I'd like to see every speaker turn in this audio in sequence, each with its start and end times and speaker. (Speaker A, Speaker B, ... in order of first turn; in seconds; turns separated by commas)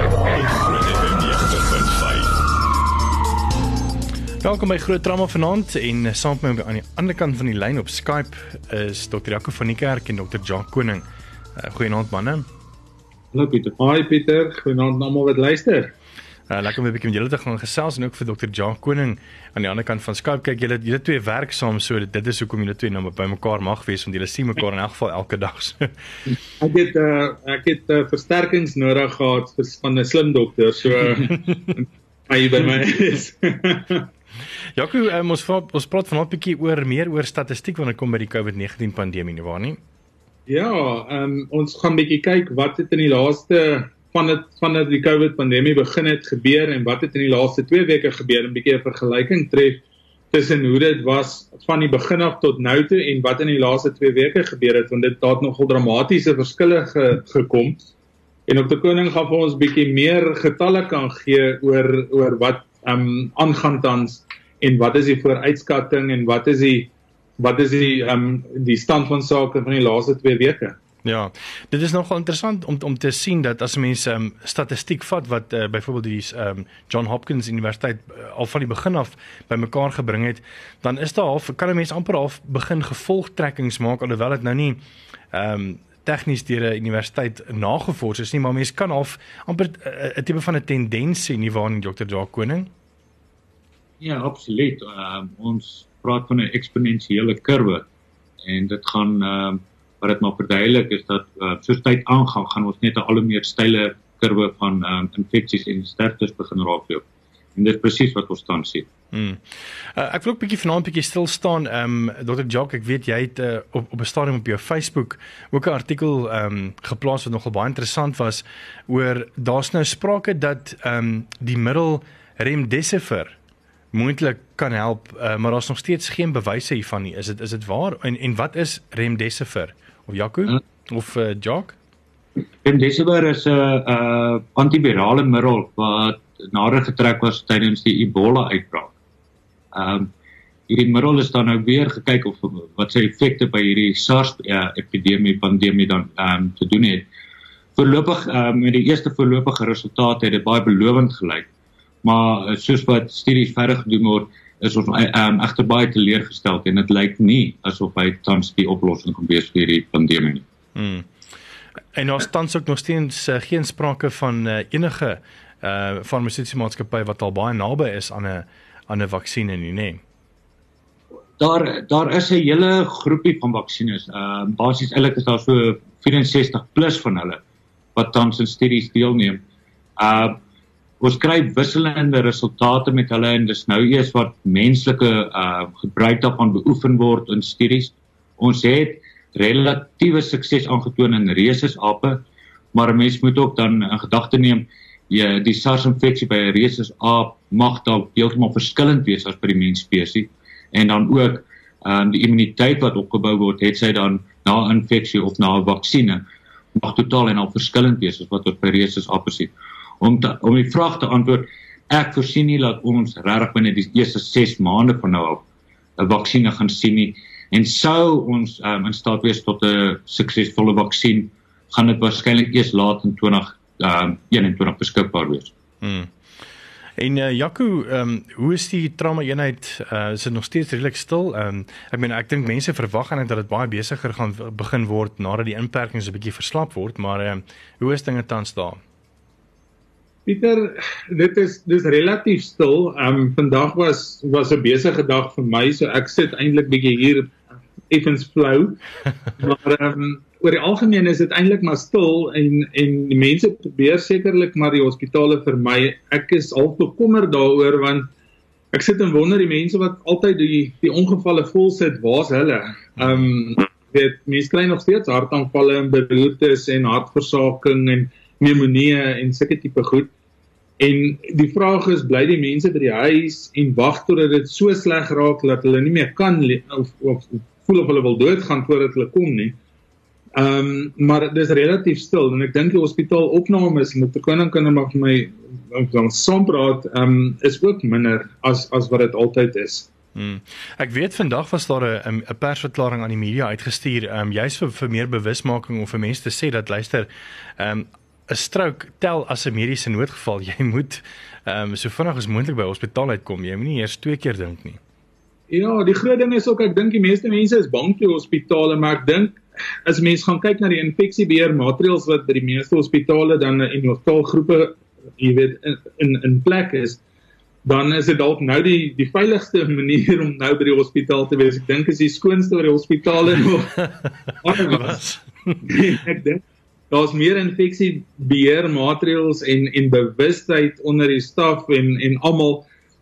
Speaker A: 0.3-2.4, Speaker B: 4.4-11.0, Speaker B: 11.6-12.5, Speaker C: 13.3-13.7, Speaker D: 13.8-15.9, Speaker B: 16.5-25.9, Speaker D: 26.6-34.1, Speaker B: 34.8-39.8, Speaker D: 40.5-57.8, Speaker D: 58.5-70.8, Speaker B: 71.0-84.8, Speaker B: 85.3-92.7, Speaker C: 94.0-97.9, Speaker C: 98.4-107.0, Speaker C: 107.5-108.9, Speaker B: 109.1-123.4, Speaker B: 123.9-131.8, Speaker C: 132.6-138.9, Speaker C: 139.7-140.1, Speaker C: 140.7-147.1, Speaker C: 147.8-151.5, Speaker C: 152.0-160.4, Speaker B: 160.8-161.1, Speaker B: 161.9-170.0, Speaker C: 171.4-177.4, Speaker C: 177.9-179.4, Speaker C: 180.0-180.4, Speaker C: 181.0-192.2, Speaker C: 192.7-206.2, Speaker C: 206.8-215.4, Speaker C: 216.0-225.5, Speaker B: 225.8-226.1, Speaker B: 227.0-238.8, Speaker D: 240.3-247.4, Speaker D: 247.9-248.8, Speaker D: 249.4-258.1, Speaker D: 258.7-270.1, Speaker D: 270.8-279.6, Speaker D: 280.3-289.9, Speaker B: 290.1-304.8, Speaker D: 305.5-317.0, Speaker D: 317.6-325.0, Speaker B: 324.5-325.7, Speaker D: 325.6-332.7